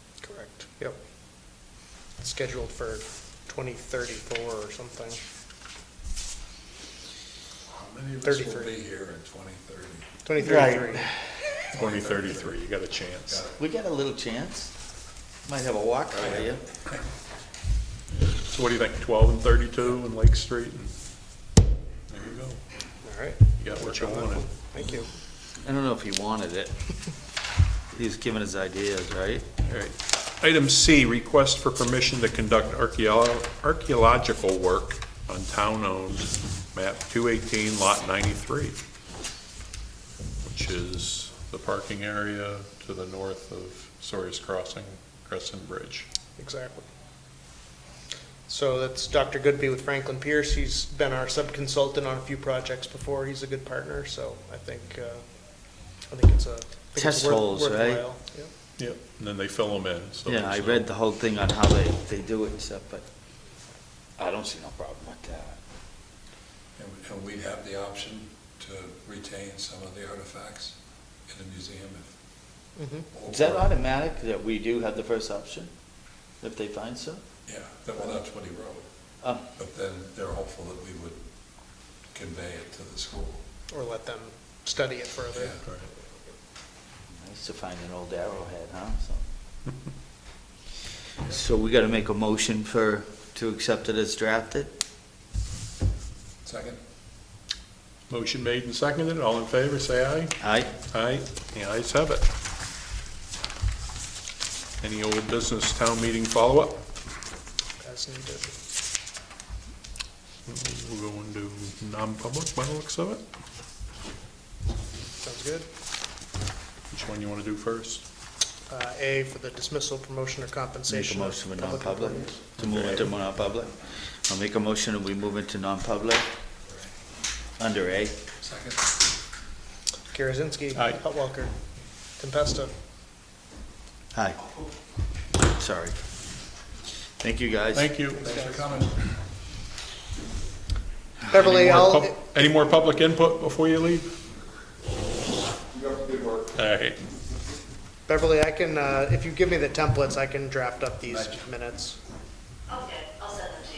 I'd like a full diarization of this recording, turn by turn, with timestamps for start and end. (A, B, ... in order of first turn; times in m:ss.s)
0:00.2-0:01.0 A
0:02.2-0:05.2 A
0:07.7-0:10.1 B
0:08.2-0:08.7 A
0:10.2-0:11.1 A
0:10.4-0:11.2 C
0:11.7-0:12.6 B
0:11.7-0:13.4 D
0:13.3-0:13.6 B
0:13.6-0:14.7 C
0:15.5-0:16.6 C
0:16.1-0:16.5 B
0:18.4-0:20.9 D
0:22.1-0:22.6 D
0:23.0-0:25.1 A
0:23.6-0:24.5 D
0:25.6-0:26.8 C
0:27.9-0:29.5 C
0:29.6-0:38.8 D
0:40.4-0:46.1 D
0:46.4-0:46.9 A
0:48.5-0:55.2 A
0:56.1-0:58.5 A
0:57.0-0:58.0 C
0:58.8-1:00.9 D
1:00.3-1:03.1 C
1:04.2-1:05.6 C
1:06.8-1:10.8 B
1:11.3-1:12.1 B
1:12.8-1:13.1 A
1:13.1-1:13.7 B
1:13.3-1:15.7 C
1:16.4-1:17.2 C
1:17.5-1:18.8 B
1:19.6-1:21.2 B
1:22.1-1:23.4 B
1:23.7-1:25.6 A
1:25.3-1:25.6 B
1:27.2-1:29.2 C
1:31.2-1:34.7 C
1:36.4-1:36.8 B
1:38.1-1:42.3 D
1:40.4-1:40.7 C
1:44.8-1:46.8 D
1:47.8-1:48.6 A
1:50.5-1:53.2 D
1:55.2-1:55.7 A
1:56.9-1:58.0 D
1:58.7-2:02.4 A
2:00.9-2:03.7 C
2:02.6-2:03.1 D
2:04.3-2:06.3 C
2:07.6-2:08.2 C
2:08.4-2:08.8 B
2:10.1-2:11.5 A
2:12.2-2:12.7 A
2:14.1-2:14.4 C
2:15.5-2:16.0 C
2:17.2-2:17.9 C
2:17.7-2:18.9 D
2:18.2-2:19.0 B
2:21.3-2:22.1 A
2:21.3-2:24.1 D
2:26.5-2:27.0 D
2:28.1-2:32.0 A